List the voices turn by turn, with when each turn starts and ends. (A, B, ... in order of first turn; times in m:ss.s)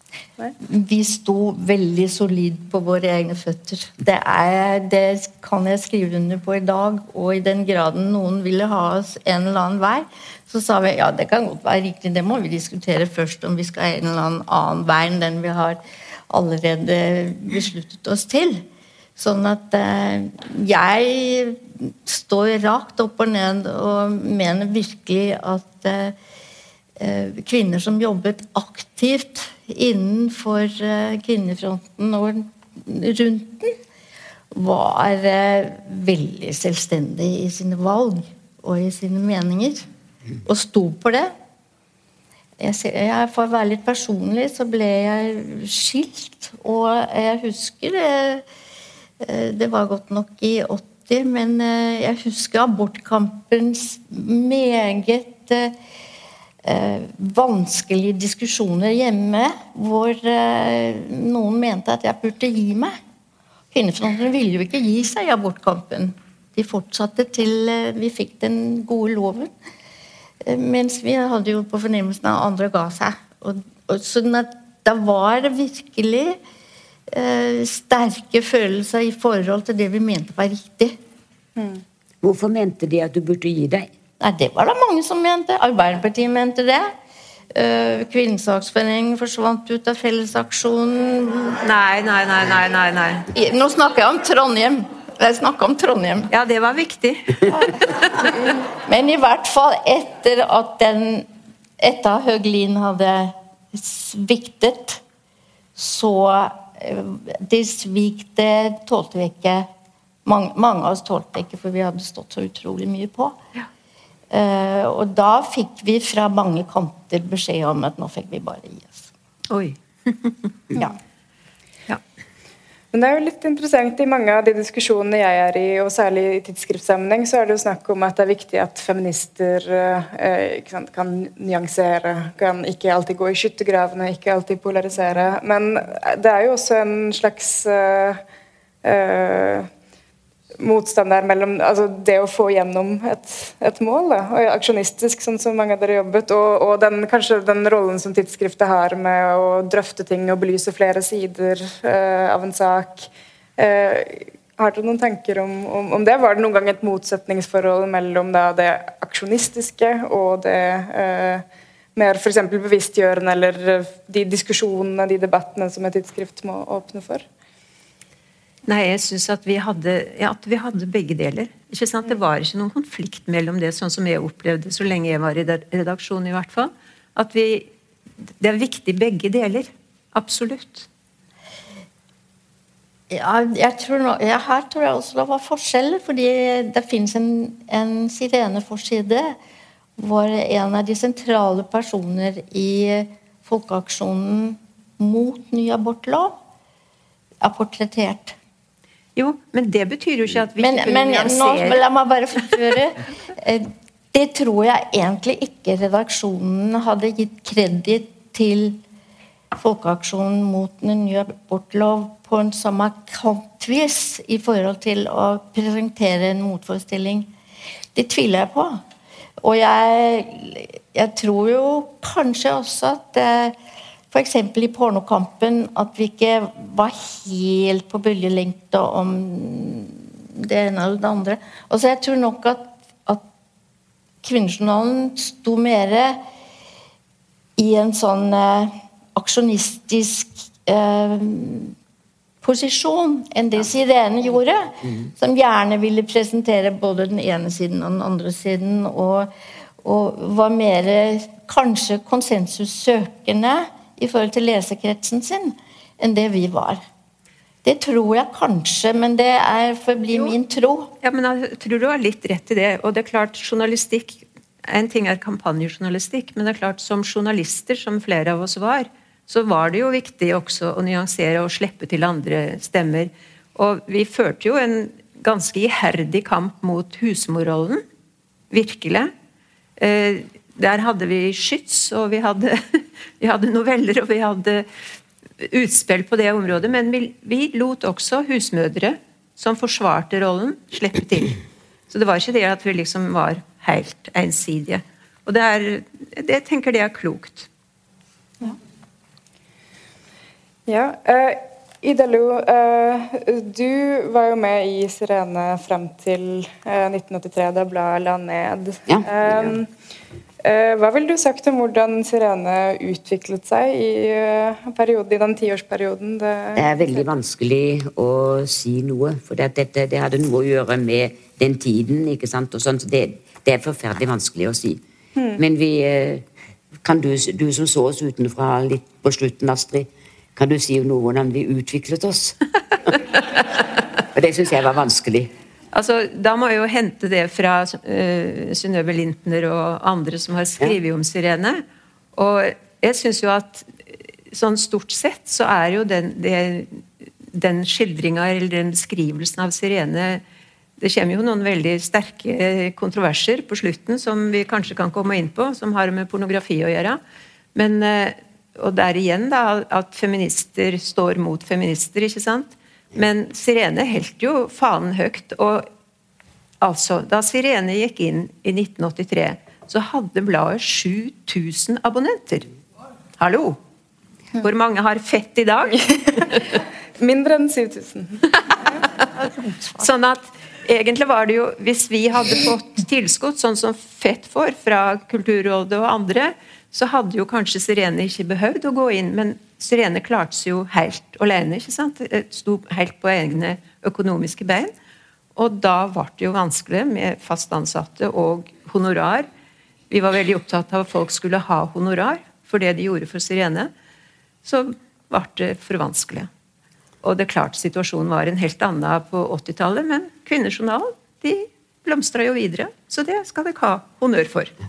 0:00.6-0:18.6 A
0:19.2-0:26.2 A
0:27.0-0:33.7 A
0:34.5-0:39.8 A
0:40.4-0:41.3 A
0:42.6-0:48.4 A
0:49.2-0:55.7 A
0:56.6-1:03.0 A
1:03.7-1:09.5 A
1:10.4-1:16.4 A
1:17.1-1:21.0 A
1:21.6-1:21.8 B
1:22.2-1:23.9 C
1:24.2-1:26.9 A
1:27.5-1:31.6 A
1:31.6-1:33.3 D
1:33.3-1:36.3 A
1:36.3-1:37.6 D
1:38.4-1:41.3 A
1:41.8-1:45.0 A
1:45.8-1:49.7 A
1:50.2-1:53.4 A
1:54.3-1:59.1 A
1:59.5-2:00.4 D
2:02.9-2:18.2 B
2:18.8-2:19.7 B
2:20.6-2:41.4 B
2:42.0-2:47.2 B
2:48.7-2:57.7 D
2:58.4-3:00.9 D
3:03.1-3:09.4 A
3:10.0-3:16.4 A
3:17.4-3:18.4 A
3:19.2-3:21.8 D
3:20.6-3:28.8 A
3:29.6-3:37.3 A
3:37.9-3:38.8 A
3:39.4-3:43.6 A
3:44.1-3:53.2 A
3:54.2-3:56.2 A
3:57.6-4:01.7 A
4:02.4-4:16.8 A
4:17.6-4:20.9 A
4:21.0-4:37.8 D
4:38.5-4:39.1 D
4:39.8-4:44.6 D
4:45.4-4:51.4 D
4:51.9-4:57.5 D
5:00.7-5:09.7 B
5:08.9-5:09.6 C
5:10.4-5:16.6 B
5:16.6-5:24.8 C
5:25.4-5:26.2 C
5:26.8-5:32.4 C
5:34.1-5:35.3 C
5:35.7-5:41.6 D
5:42.1-5:50.2 D
5:50.8-5:57.0 D
5:57.5-6:05.7 D
6:06.6-6:12.5 D
6:13.2-6:13.6 D
6:14.3-6:15.8 D
6:15.7-6:18.3 B
6:19.2-6:19.8 A
6:19.8-6:34.7 D
6:35.4-6:39.3 D
6:39.9-6:43.7 D
6:44.4-6:46.3 D
6:47.0-6:54.5 D